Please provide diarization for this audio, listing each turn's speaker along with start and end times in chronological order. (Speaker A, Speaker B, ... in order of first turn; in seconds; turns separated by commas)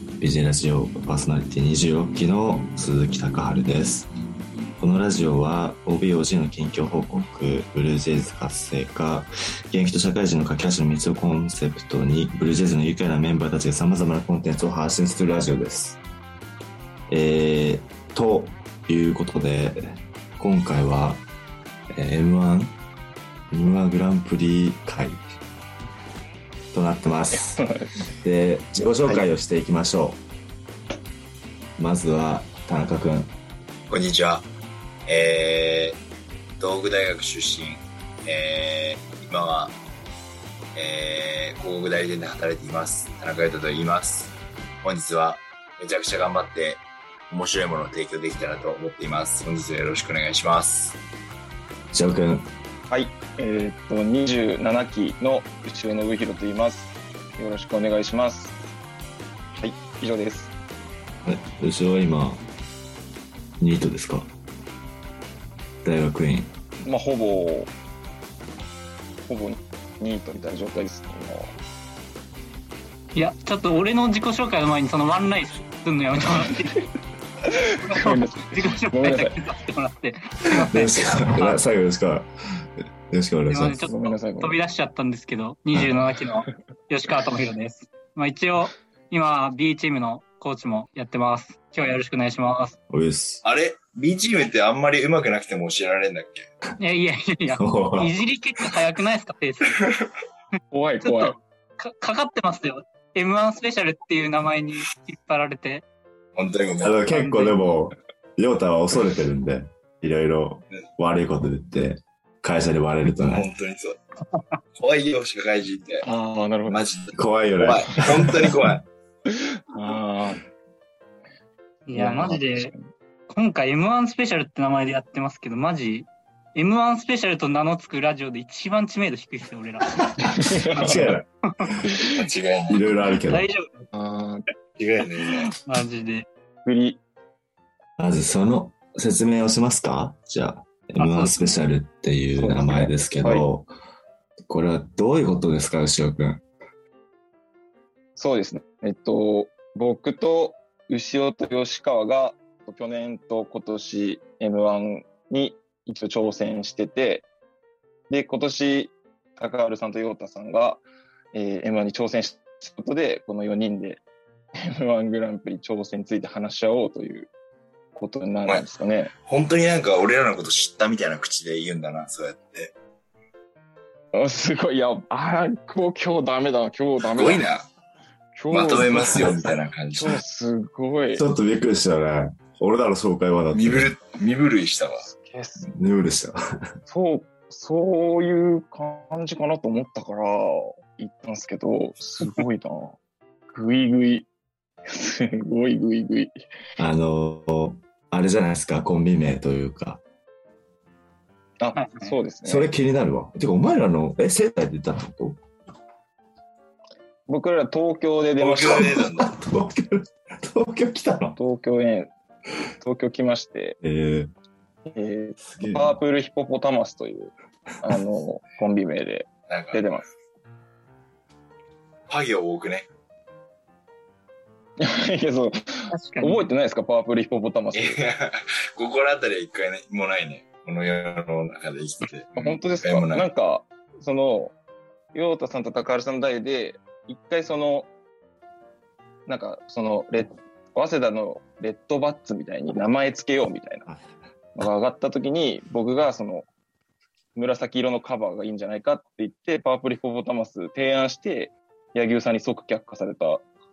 Speaker A: 0.2-4.1, Speaker A: 4.8-16.0, Speaker A: 17.1-19.8, Speaker A: 20.4-21.2, Speaker A: 21.9-22.8, Speaker A: 23.5-25.2, Speaker A: 26.7-27.6, Speaker B: 27.4-28.0, Speaker A: 28.2-30.2, Speaker A: 31.8-33.4, Speaker C: 33.9-34.5, Speaker C: 35.1-36.0, Speaker C: 36.6-39.8, Speaker C: 40.8-51.0, Speaker A: 51.9-52.5, Speaker B: 52.9-58.6, Speaker B: 59.6-60.5, Speaker A: 61.2-62.4, Speaker A: 63.6-64.3, Speaker A: 65.8-66.5, Speaker B: 66.8-67.7, Speaker B: 69.3-71.5, Speaker D: 73.2-76.8, Speaker B: 77.5-79.4, Speaker D: 77.9-81.6, Speaker A: 80.6-82.3, Speaker A: 83.1-83.9, Speaker D: 83.5-92.8, Speaker B: 83.8-84.6, Speaker A: 92.9-93.4, Speaker C: 93.4-96.5, Speaker D: 96.8-99.9, Speaker A: 97.5-98.2, Speaker B: 100.7-101.4, Speaker D: 101.0-105.8, Speaker C: 106.3-107.1, Speaker A: 106.8-113.5, Speaker D: 107.1-107.6, Speaker C: 113.3-114.0, Speaker C: 114.8-116.0, Speaker B: 116.0-116.8, Speaker C: 116.7-118.8, Speaker A: 117.1-118.8, Speaker B: 119.3-120.4, Speaker D: 121.9-122.7, Speaker B: 121.9-122.9, Speaker D: 123.3-130.2, Speaker B: 130.2-131.2, Speaker D: 130.8-131.1, Speaker A: 130.8-131.3, Speaker C: 132.1-132.9, Speaker A: 132.7-133.5, Speaker D: 133.3-133.9, Speaker B: 133.9-134.4, Speaker C: 134.8-135.5, Speaker D: 135.6-136.3, Speaker B: 136.7-137.0, Speaker A: 138.0-143.7, Speaker D: 141.0-141.6, Speaker B: 142.3-143.5, Speaker A: 144.5-146.4, Speaker B: 148.2-157.3, Speaker B: 158.1-164.0, Speaker B: 164.6-167.3, Speaker B: 167.9-169.1, Speaker C: 168.4-172.7, Speaker B: 174.1-177.5, Speaker C: 177.1-177.6, Speaker B: 178.4-179.4, Speaker C: 178.5-180.2, Speaker B: 179.9-181.2, Speaker A: 181.2-183.9, Speaker C: 183.5-185.1, Speaker B: 185.1-185.7, Speaker A: 185.7-186.4, Speaker B: 186.9-193.0, Speaker B: 193.5-194.3, Speaker B: 194.9-196.3, Speaker A: 196.8-200.0, Speaker B: 201.6-202.7, Speaker D: 201.8-202.2, Speaker A: 202.4-205.4, Speaker B: 207.3-209.0, Speaker C: 208.4-209.3, Speaker A: 208.7-211.4, Speaker B: 211.4-212.1, Speaker B: 212.8-213.8, Speaker A: 213.8-214.3, Speaker B: 214.9-220.1, Speaker A: 215.4-216.0, Speaker C: 219.5-219.8, Speaker C: 222.1-222.9, Speaker B: 224.8-228.0, Speaker D: 225.9-226.5, Speaker C: 227.7-233.3, Speaker B: 232.4-234.6, Speaker B: 235.1-237.9, Speaker B: 239.3-243.9, Speaker B: 244.6-246.5, Speaker B: 247.3-253.4